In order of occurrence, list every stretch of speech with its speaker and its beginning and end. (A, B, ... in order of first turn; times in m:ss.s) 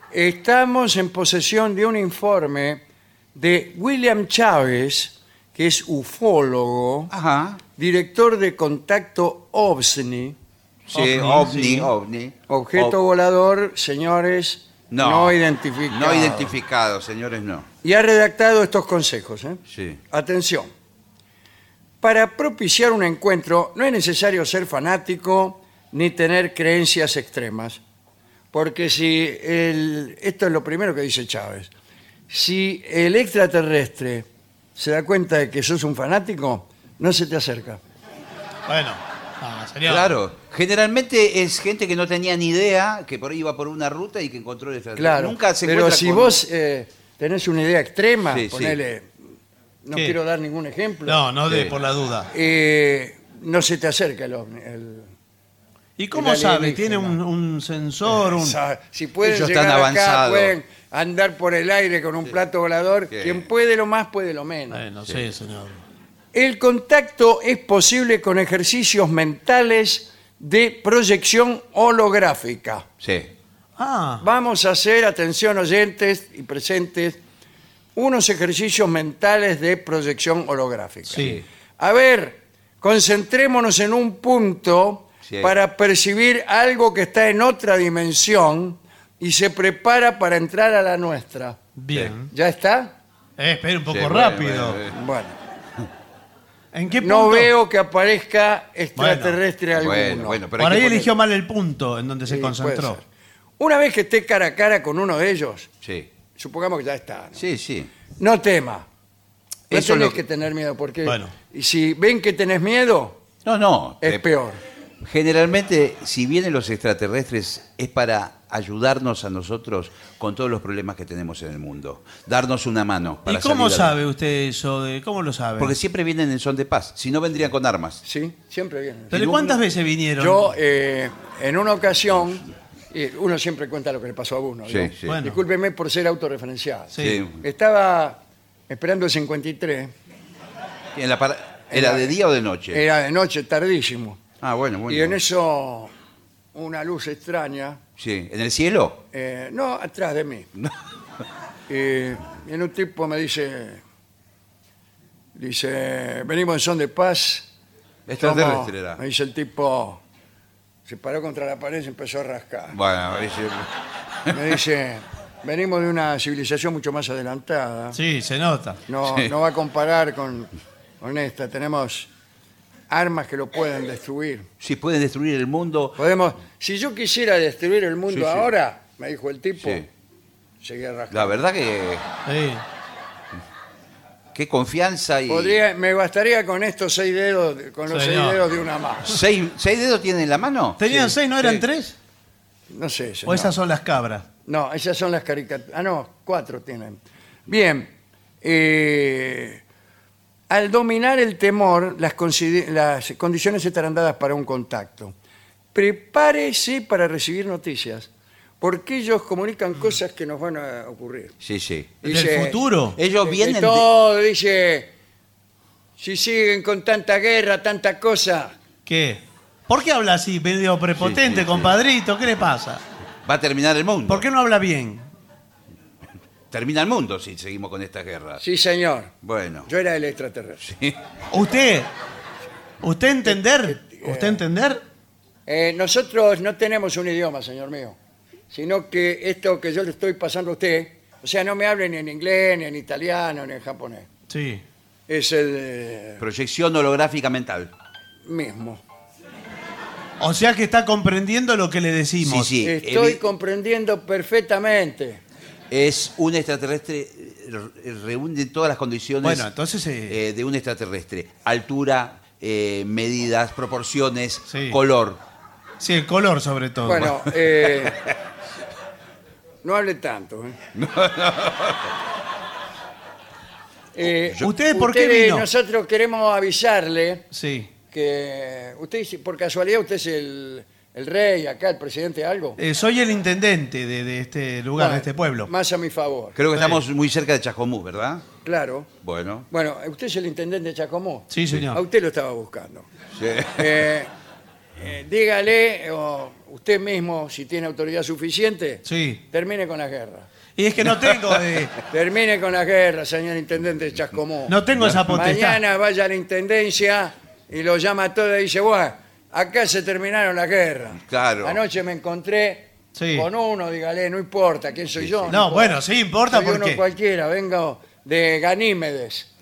0:00.1-0:02.8 A
0:03.4-0:07.1 A
0:07.1-0:07.6 B
0:07.8-0:10.4 A
0:10.9-0:13.0 B
0:10.9-0:11.9 C
0:12.5-0:16.6 A
0:14.9-0:15.4 B
0:15.9-0:17.7 B
0:17.8-0:20.7 A
0:19.7-0:20.0 B
0:22.0-0:27.8 A
0:28.5-0:31.7 A
0:32.3-0:37.8 A
0:38.7-0:40.1 C
0:39.8-0:46.4 B
0:45.0-0:49.1 A
0:48.3-0:48.8 B
0:49.8-0:51.2 A
0:51.1-0:52.3 C
0:51.5-0:51.8 B
0:52.3-0:55.1 A
0:56.0-0:58.6 C
0:56.1-0:57.2 A
0:58.1-1:04.8 A
0:59.2-1:00.6 B
1:03.1-1:03.4 B
1:04.7-1:05.8 C
1:06.3-1:12.9 A
1:13.0-1:13.3 B
1:13.8-1:14.2 C
1:14.2-1:17.2 A
1:18.0-1:31.6 A
1:21.1-1:21.4 C
1:21.2-1:21.4 B
1:25.2-1:25.5 B
1:31.8-1:32.3 C
1:32.3-1:33.0 A
1:33.4-1:34.8 C
1:33.9-1:34.9 B
1:34.9-1:35.4 A
1:36.7-1:37.5 C
1:37.0-1:40.4 A
1:39.0-1:39.4 C
1:39.8-1:41.1 B
1:40.6-1:43.0 C
1:42.3-1:43.0 A
1:43.6-1:45.7 A
1:45.8-1:46.1 B
1:46.4-1:47.4 A
1:47.4-1:47.9 B
1:48.2-1:48.9 A
1:49.7-1:53.2 A
1:49.7-1:50.2 B
1:51.1-1:51.3 C
1:53.4-1:54.3 B
1:54.0-1:54.6 A
1:55.0-2:04.0 B
2:03.3-2:05.8 C
2:05.6-2:08.0 B
2:08.0-2:09.3 A
2:09.1-2:09.6 B
2:09.1-2:10.5 C
2:10.2-2:19.9 A
2:14.7-2:15.2 B
2:15.1-2:15.4 C
2:16.9-2:17.2 C
2:17.0-2:17.4 B
2:20.9-2:22.8 B
2:21.7-2:22.2 A
2:22.7-2:24.2 A
2:24.4-2:25.2 B
2:24.9-2:25.9 A
2:26.5-2:27.8 A
2:28.0-2:29.0 B
2:29.1-2:30.5 A
2:31.7-2:33.8 A
2:35.4-2:37.5 A
2:38.1-2:39.0 B
2:38.2-2:40.0 A
2:40.9-2:42.8 A
2:42.7-2:43.7 B
2:44.3-2:48.0 A
2:47.9-2:48.8 C
2:48.9-2:52.1 A
2:49.0-2:49.3 B
2:52.9-2:54.5 A
2:54.6-2:56.0 B
2:56.0-2:59.9 A
2:58.1-2:58.5 B
2:59.6-2:59.9 B
3:00.6-3:01.4 A
3:01.1-3:02.1 B
3:02.3-3:02.6 C
3:04.3-3:05.6 B
3:05.3-3:09.2 A
3:07.9-3:08.4 C
3:09.0-3:11.6 B
3:10.8-3:12.0 C
3:12.7-3:13.5 A
3:13.3-3:14.3 C
3:14.5-3:19.6 A
3:20.5-3:25.2 A
3:25.7-3:28.1 A
3:28.6-3:31.4 A
3:31.4-3:32.0 B
3:32.0-3:32.6 A
3:32.1-3:33.0 C
3:33.0-3:33.9 B
3:33.2-3:34.9 A
3:36.0-3:38.5 A
3:38.9-3:42.8 C
3:41.0-3:41.8 B
3:43.2-3:44.3 B
3:44.1-3:45.1 C
3:46.5-3:48.4 B
3:48.4-3:49.1 A
3:49.2-3:49.7 B
3:49.7-3:50.7 A
3:50.6-3:51.0 B
3:51.3-3:51.9 C
3:52.8-3:54.8 C
3:53.3-3:54.4 A
3:55.5-3:58.0 A
3:58.5-4:04.1 A
4:04.3-4:04.6 C
4:05.1-4:06.2 A
4:06.2-4:07.7 B
4:08.3-4:08.8 A
4:10.2-4:12.5 C
4:12.2-4:13.2 B
4:12.6-4:15.2 A
4:15.7-4:19.5 B
4:19.2-4:20.2 C
4:20.1-4:25.2 B
4:24.5-4:24.8 C
4:25.8-4:27.2 C
4:26.8-4:28.0 A
4:29.6-4:30.6 A
4:30.8-4:31.9 B
4:34.0-4:37.2 A
4:34.4-4:35.5 C
4:37.3-4:37.7 C
4:37.9-4:42.6 A
4:42.6-4:45.5 C
4:44.8-4:46.4 A
4:46.4-4:48.2 B
4:46.5-4:46.8 C
4:48.4-4:48.9 A
4:49.0-4:49.5 B
4:49.5-4:52.9 A
4:51.3-4:51.8 C
4:53.2-4:53.8 B
4:53.6-4:54.1 A
4:54.8-5:00.3 A
4:58.9-4:59.2 C
5:00.6-5:01.8 C
5:01.1-5:01.4 B
5:01.9-5:04.6 A
5:04.5-5:05.6 C
5:04.8-5:05.1 B
5:05.1-5:19.3 A
5:11.0-5:11.6 B
5:13.0-5:13.3 C
5:15.0-5:15.4 B
5:15.3-5:16.8 C